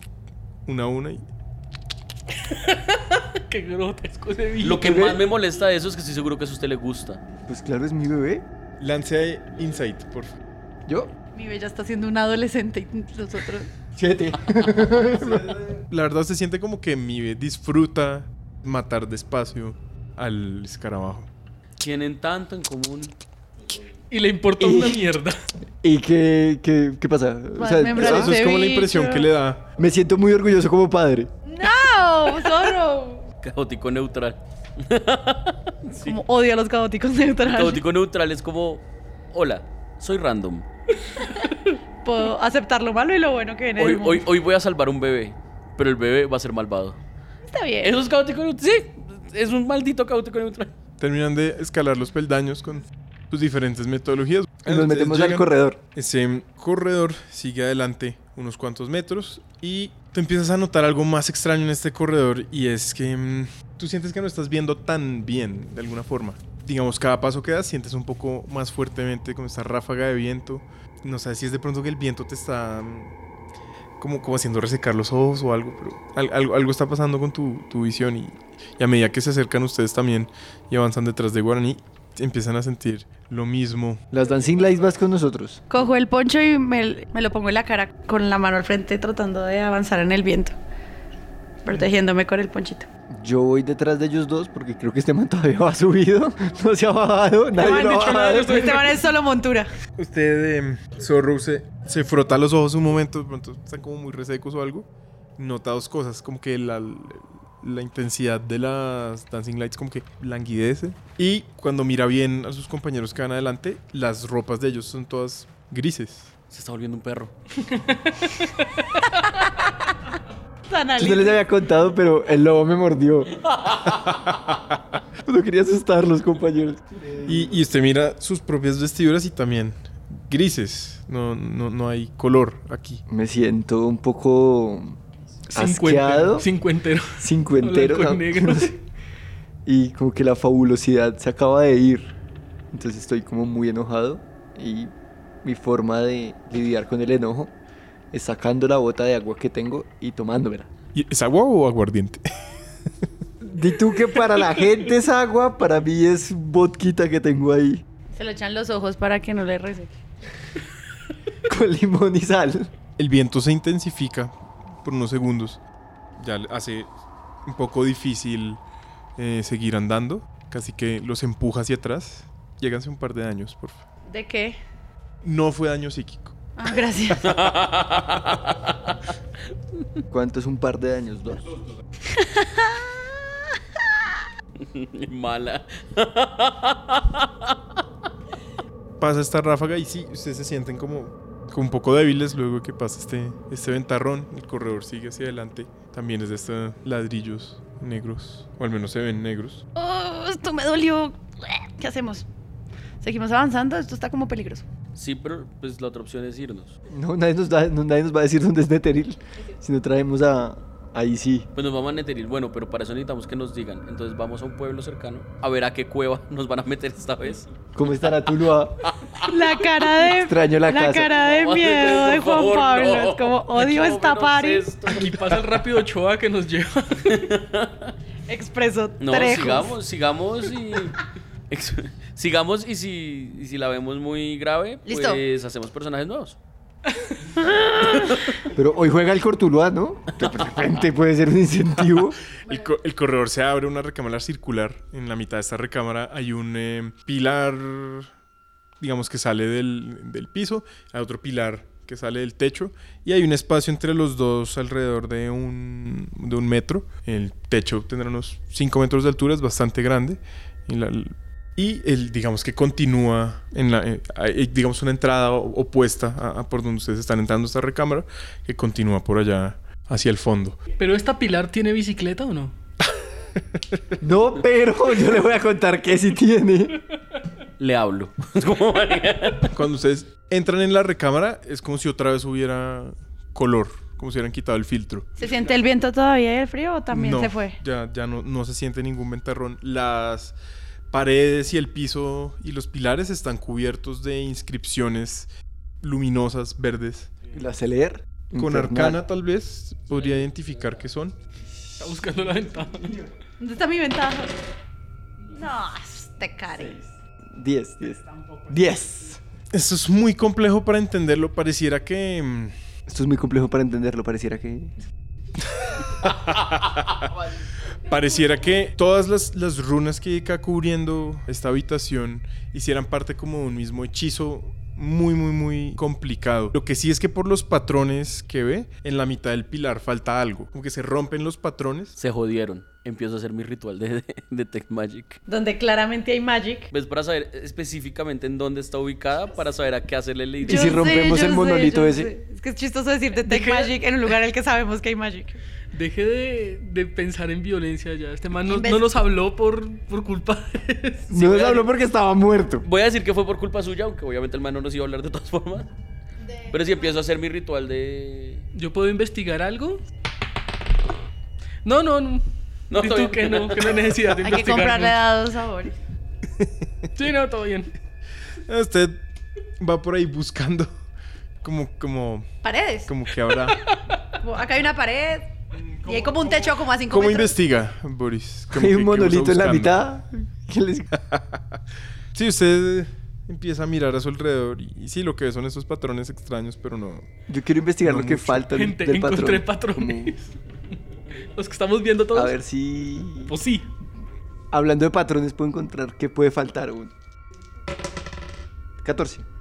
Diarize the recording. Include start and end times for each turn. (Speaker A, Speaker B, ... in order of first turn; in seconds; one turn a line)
Speaker A: 0.7-1.2
Speaker B: 2.4-5.1
Speaker C: 4.6-7.2
Speaker D: 4.8-5.2
Speaker D: 7.5-8.4
Speaker A: 8.8-10.3
Speaker E: 11.3-13.7
Speaker D: 13.9-15.6
Speaker A: 15.9-21.3
Speaker C: 21.8-23.1
Speaker B: 24.1-25.4
Speaker D: 24.6-25.0
Speaker D: 25.8-28.4
Speaker E: 27.6-29.3
Speaker A: 27.9-29.6
Speaker D: 29.8-31.3
Speaker E: 31.5-33.2
Speaker C: 33.4-36.2
Speaker E: 36.0-37.8
Speaker C: 37.5-40.6
Speaker E: 42.0-44.2
Speaker C: 43.8-47.0
Speaker E: 47.5-48.0
Speaker C: 47.8-50.7
Speaker A: 51.0-73.1
Speaker D: 54.6-55.8
Speaker A: 74.0-84.0
Speaker D: 84.1-85.6
Speaker E: 85.7-90.5
Speaker E: 91.7-92.9
Speaker D: 93.1-98.7
Speaker B: 97.5-99.0
Speaker E: 97.6-99.7
Speaker A: 100.0-116.3
Speaker C: 116.5-117.3
Speaker B: 117.7-118.7
Speaker E: 119.4-119.7
Speaker E: 120.7-121.4
Speaker D: 121.0-123.4
Speaker D: 125.2-127.6
Speaker A: 127.2-133.0
Speaker D: 133.1-135.0
Speaker B: 135.5-138.8
Speaker D: 135.5-136.5
Speaker D: 137.2-138.7
Speaker D: 139.7-142.1
Speaker D: 142.7-144.9
Speaker D: 145.4-147.5
Speaker D: 148.1-150.7
Speaker A: 150.9-152.2
Speaker D: 153.4-157.8
Speaker E: 158.1-160.0
Speaker D: 161.5-162.7
Speaker A: 163.0-164.3
Speaker A: 164.8-165.6
Speaker A: 166.2-166.9
Speaker A: 167.4-168.6
Speaker A: 169.2-173.8
Speaker E: 174.1-174.6
Speaker A: 175.2-176.3
Speaker E: 176.6-177.3
Speaker C: 177.2-178.7
Speaker D: 180.1-181.4
Speaker E: 182.1-182.9
Speaker C: 184.7-187.5
Speaker A: 189.0-199.6
Speaker E: 199.8-202.2
Speaker E: 203.0-204.6
Speaker C: 204.9-206.7
Speaker D: 206.9-211.5
Speaker C: 211.5-217.5
Speaker D: 217.7-218.8
Speaker C: 218.9-219.3
Speaker E: 219.2-224.9
Speaker D: 220.1-221.1
Speaker C: 221.1-225.1
Speaker B: 224.9-227.1
Speaker C: 227.1-227.9
Speaker E: 228.3-229.8
Speaker C: 229.0-231.0
Speaker C: 231.5-236.3
Speaker E: 234.8-235.2
Speaker C: 237.9-238.3
Speaker D: 238.5-242.2
Speaker A: 242.5-248.1
Speaker A: 248.8-270.6
Speaker B: 270.8-272.5
Speaker D: 274.0-276.8
Speaker C: 277.6-279.5
Speaker A: 279.5-285.1
Speaker E: 285.2-287.6
Speaker A: 286.9-290.4
Speaker A: 290.9-295.3
Speaker A: 295.8-297.2
Speaker D: 297.3-299.0
Speaker A: 298.3-301.1
Speaker B: 301.8-302.9
Speaker E: 303.4-304.3
Speaker E: 305.4-306.8
Speaker D: 307.3-309.2
Speaker A: 309.5-312.5
Speaker D: 312.9-314.7
Speaker A: 316.0-316.9
Speaker A: 317.9-331.9
Speaker C: 332.0-335.2
Speaker E: 335.3-336.7
Speaker C: 336.7-341.0
Speaker D: 340.4-342.1
Speaker E: 340.4-345.4
Speaker B: 345.7-351.1
Speaker E: 348.5-348.8
Speaker D: 351.1-352.6
Speaker C: 351.1-351.7
Speaker C: 352.6-355.7
Speaker C: 356.5-358.4
Speaker B: 358.5-359.8
Speaker B: 361.6-364.9
Speaker C: 362.7-363.8
Speaker E: 364.2-365.8
Speaker B: 366.9-367.7
Speaker A: 368.5-369.0
Speaker A: 369.6-370.7
Speaker A: 371.4-372.3
Speaker E: 372.4-372.9
Speaker A: 372.9-373.6
Speaker E: 374.2-377.4
Speaker A: 375.5-379.7
Speaker D: 378.5-381.0
Speaker A: 382.1-387.1
Speaker D: 387.3-390.2
Speaker A: 387.8-388.4
Speaker B: 388.5-390.2
Speaker B: 391.4-392.4
Speaker D: 392.1-393.4
Speaker B: 393.2-393.7
Speaker D: 394.5-396.9
Speaker D: 398.8-399.2